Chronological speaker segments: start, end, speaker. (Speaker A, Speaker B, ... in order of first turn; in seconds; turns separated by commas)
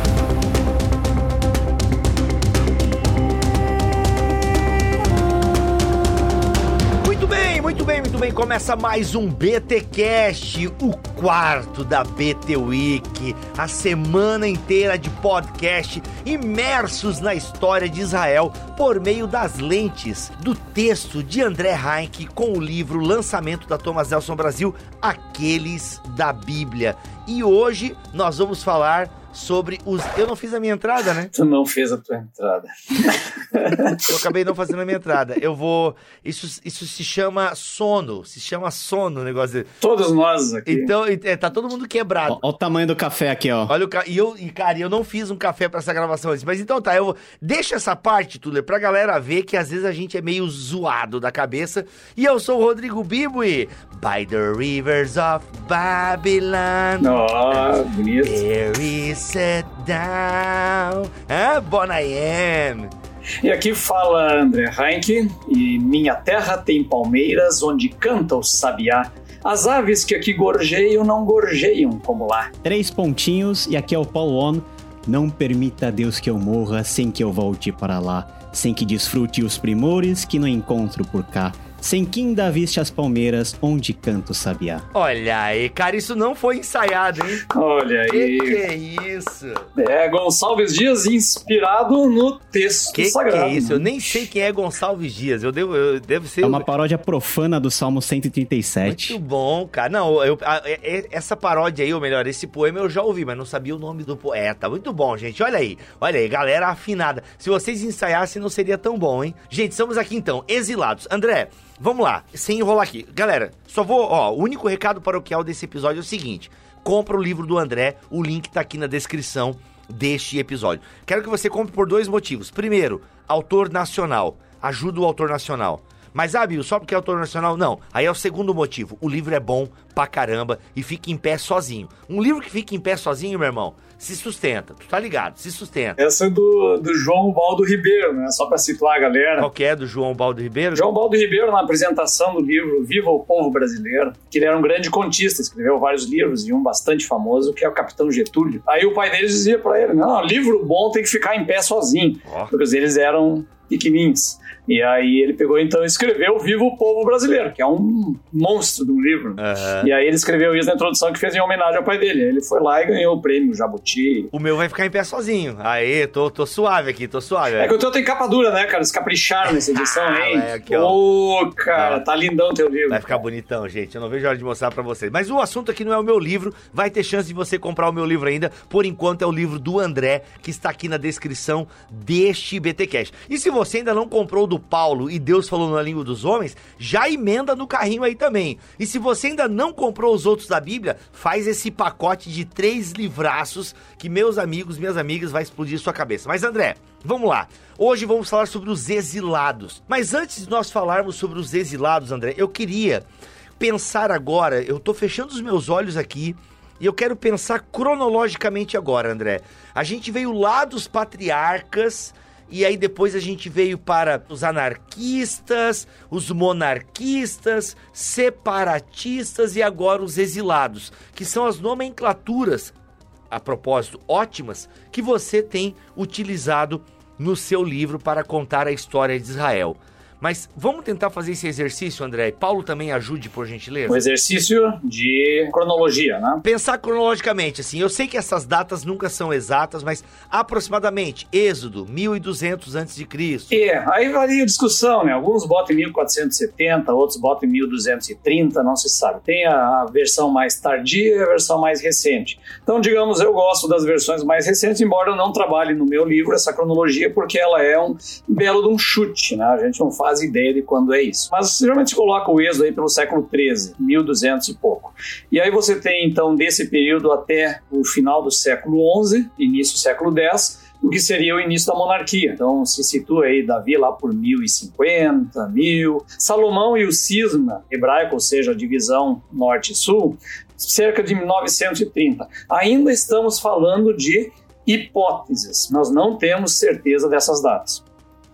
Speaker A: 7.0-31.3, Speaker B: 31.3-34.1, Speaker A: 34.0-39.7, Speaker B: 39.8-40.9, Speaker A: 40.7-42.4, Speaker C: 42.3-43.7, Speaker A: 43.7-57.7, Speaker B: 57.0-58.4, Speaker A: 58.2-62.9, Speaker B: 63.4-72.5, Speaker C: 72.6-84.8, Speaker A: 84.9-87.5, Speaker B: 87.5-88.6, Speaker A: 88.1-89.7, Speaker B: 89.8-94.2, Speaker A: 92.9-96.7, Speaker C: 96.4-99.2, Speaker A: 98.8-136.0, Speaker B: 136.0-139.5, Speaker A: 139.4-140.9, Speaker B: 140.8-164.3, Speaker A: 152.3-152.5, Speaker A: 159.4-159.9, Speaker A: 164.3-167.7, Speaker B: 167.6-173.2, Speaker A: 169.7-171.0, Speaker A: 171.8-172.0, Speaker A: 172.9-203.1, Speaker A: 203.6-222.7, Speaker A: 223.3-234.0, Speaker B: 233.9-236.4, Speaker A: 236.4-243.6, Speaker B: 243.5-287.8